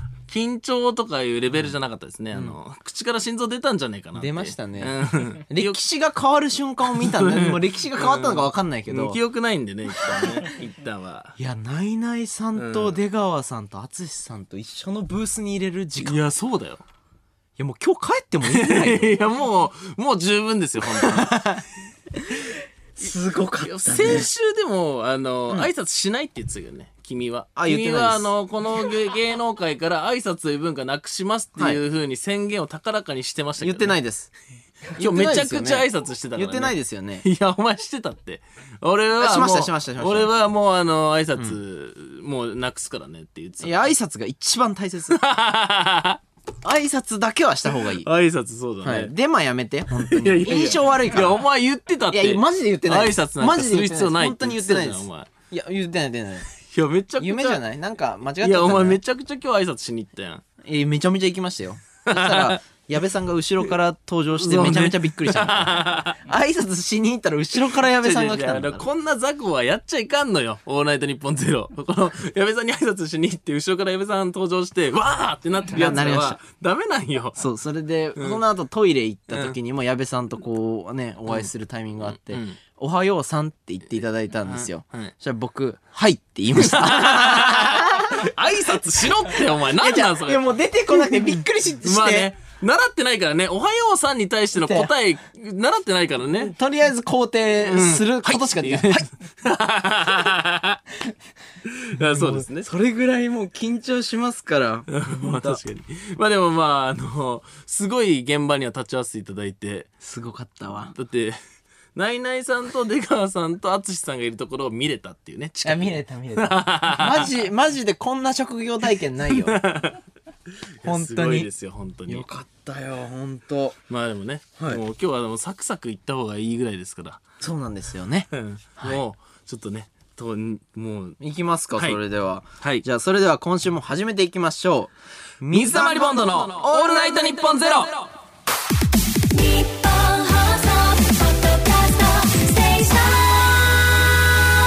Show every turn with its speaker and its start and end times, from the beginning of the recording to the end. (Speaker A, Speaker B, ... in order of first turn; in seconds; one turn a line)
Speaker A: 0.3-5.8
Speaker B: 4.2-9.2
Speaker A: 7.0-11.3
Speaker B: 10.0-10.4
Speaker B: 11.4-16.2
Speaker A: 12.6-13.0
Speaker A: 16.0-16.8
Speaker B: 17.6-19.1
Speaker A: 18.4-21.4
Speaker B: 20.8-21.6
Speaker B: 22.2-24.3
Speaker A: 23.6-34.0
Speaker B: 27.6-28.3
Speaker B: 33.6-34.3
Speaker B: 35.0-37.3
Speaker A: 35.0-43.8
Speaker B: 39.2-40.3
Speaker B: 43.6-45.2
Speaker A: 45.1-46.2
Speaker B: 46.6-48.1
Speaker A: 47.9-49.1
Speaker B: 48.8-51.4
Speaker A: 49.9-55.3
Speaker B: 52.1-56.5
Speaker A: 56.6-57.6
Speaker B: 57.2-59.0
Speaker A: 58.4-60.4
Speaker B: 60.6-68.8
Speaker A: 62.1-62.6
Speaker A: 64.4-66.2
Speaker A: 67.8-77.4
Speaker B: 75.7-76.4
Speaker B: 77.4-88.3
Speaker A: 82.0-82.6
Speaker A: 84.5-85.1
Speaker A: 86.5-91.3
Speaker B: 89.3-92.3
Speaker A: 91.8-96.5
Speaker B: 94.5-94.9
Speaker B: 96.4-99.1
Speaker A: 97.6-101.0
Speaker A: 101.7-102.7
Speaker B: 102.0-105.6
Speaker A: 104.9-109.9
Speaker B: 110.0-110.9
Speaker A: 110.9-111.4
Speaker A: 112.0-117.3
Speaker B: 115.6-119.6
Speaker A: 119.3-120.0
Speaker A: 120.8-122.3
Speaker B: 120.8-121.5
Speaker B: 122.1-123.8
Speaker A: 123.9-127.2
Speaker B: 127.4-129.0
Speaker A: 128.3-131.2
Speaker B: 131.2-137.9
Speaker A: 135.5-138.1
Speaker C: 139.3-143.8